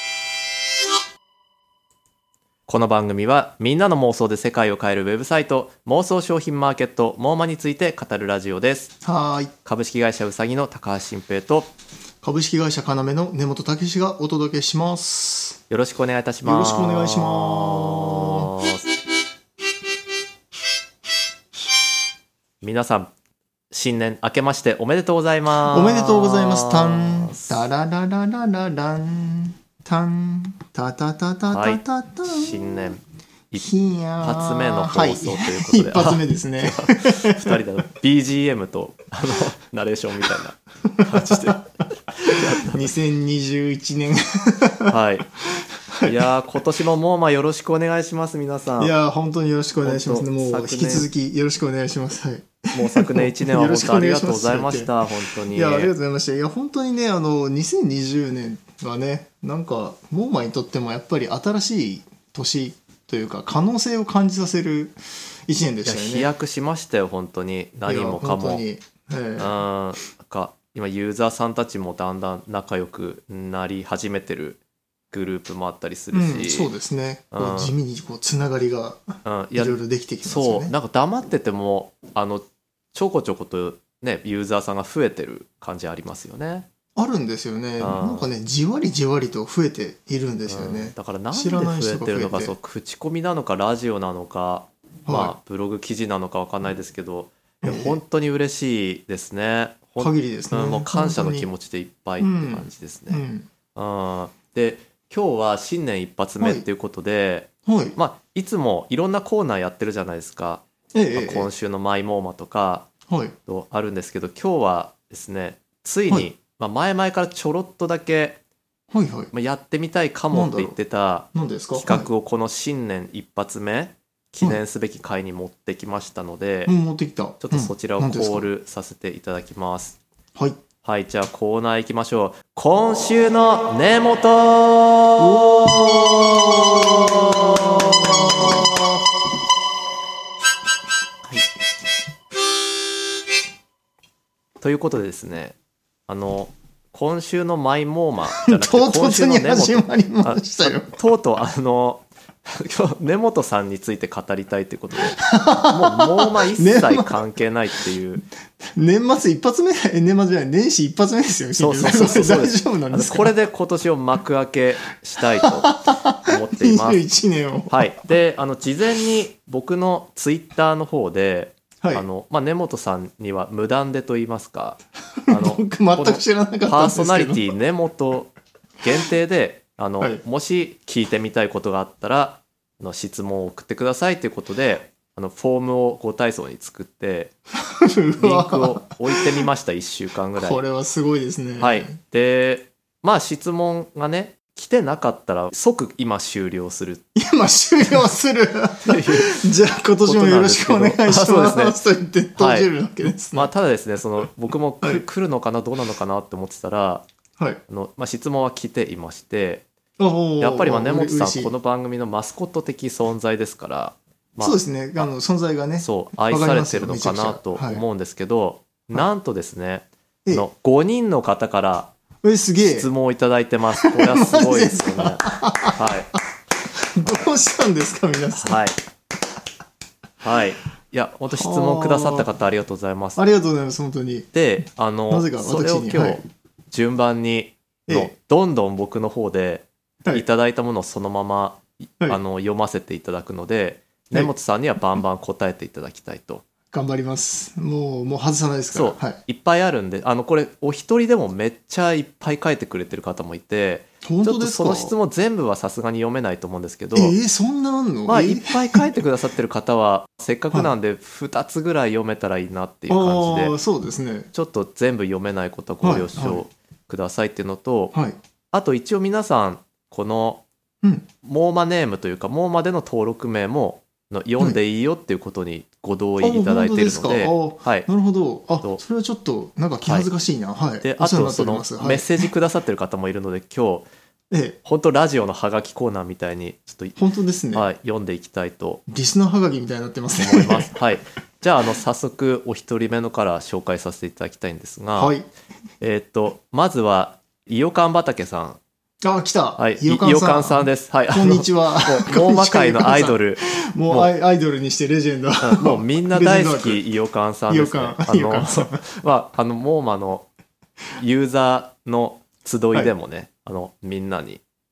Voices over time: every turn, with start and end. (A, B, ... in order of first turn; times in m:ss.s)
0:02.7-0:09.0 A
0:09.0-0:09.5 B
0:09.6-0:11.7 A
0:12.2-0:15.6 B
0:15.7-0:18.8 A
0:16.4-0:18.5 B
0:22.6-0:23.1 A
0:23.7-0:27.6 A
0:25.7-0:32.8 B
0:31.5-0:33.0 A
0:33.6-0:37.6 B
0:34.2-0:42.9 A
0:40.9-0:41.6 B
0:42.2-0:45.0 B
0:44.9-0:45.3 A
0:45.5-0:46.2 B
0:46.0-0:48.9 A
0:48.8-1:06.3 B
0:49.8-0:51.1 A
0:52.7-0:55.9 A
1:05.8-1:08.6 A
1:07.8-1:09.5 B
1:09.4-1:14.6 A
1:15.1-1:16.7 A
1:16.1-1:20.7 B
1:17.3-1:17.7 A
1:19.2-1:26.7 A
1:27.0-1:32.5 B
1:27.8-1:28.3 A
1:30.5-1:43.2 A
1:35.0-1:35.3 B
1:37.6-1:38.0 B
1:40.0-1:41.5 B
1:42.2-1:43.5 B
1:43.7-1:50.6 A
1:46.4-1:46.6 B
1:47.6-1:47.9 B
1:50.9-1:51.5 B
1:51.1-1:52.9 A
1:53.1-1:53.3 B
1:53.5-1:58.4 A
1:58.9-1:59.3 B
1:59.3-2:06.7 A
2:00.3-2:00.8 B
2:01.3-2:02.1 B
2:06.7-2:08.4 B
2:07.4-2:10.0 A
2:10.8-2:18.8 A
2:15.2-2:18.8 B
2:24.6-2:25.6 A
2:26.1-2:38.2 A
2:28.4-2:31.0 B
2:35.2-2:37.2 B
2:38.7-2:43.3 B
2:41.6-2:47.0 A
2:45.4-2:47.9 B
2:47.7-3:07.3 A
2:55.3-2:57.4 B
3:07.6-3:09.2 B
3:08.2-3:10.6 A
3:10.4-3:12.0 B
3:11.6-3:17.0 A
3:17.2-3:23.5 B
3:18.8-3:19.4 A
3:20.0-3:21.8 A
3:22.4-3:22.7 A
3:23.3-3:27.0 A
3:27.7-3:29.6 A
3:30.0-3:31.5 B
3:30.4-3:35.1 A
3:34.4-3:37.8 B
3:35.8-3:41.9 A
3:42.2-3:42.9 B
3:42.6-3:46.1 A
3:43.8-3:45.8 B
3:46.7-3:48.6 B
3:48.4-3:48.8 A
3:50.2-3:53.2 A
3:51.3-3:52.3 B
3:53.2-3:54.3 B
3:54.3-4:06.4 A
3:55.1-3:56.2 B
3:57.9-3:58.1 B
4:06.7-4:09.2 B
4:08.7-4:17.1 A
4:14.0-4:14.9 B
4:16.9-4:18.8 B
4:18.1-4:23.6 A
4:22.9-4:24.3 B
4:24.3-4:27.9 A
4:25.8-4:26.4 B
4:28.5-4:30.4 A
4:31.2-4:37.9 A
4:36.2-4:42.2 B
4:40.8-4:43.9 A
4:44.3-4:44.6 B
4:44.6-4:47.0 A
4:47.0-4:47.6 B
4:47.5-4:48.8 A
4:48.9-4:50.7 B
4:50.1-4:55.1 A
4:55.0-4:55.2 B
4:55.8-4:58.6 A
4:59.0-5:06.8 B
4:59.6-5:04.1 A
5:05.4-5:10.3 A
5:07.5-5:08.8 B
5:11.0-5:14.4 A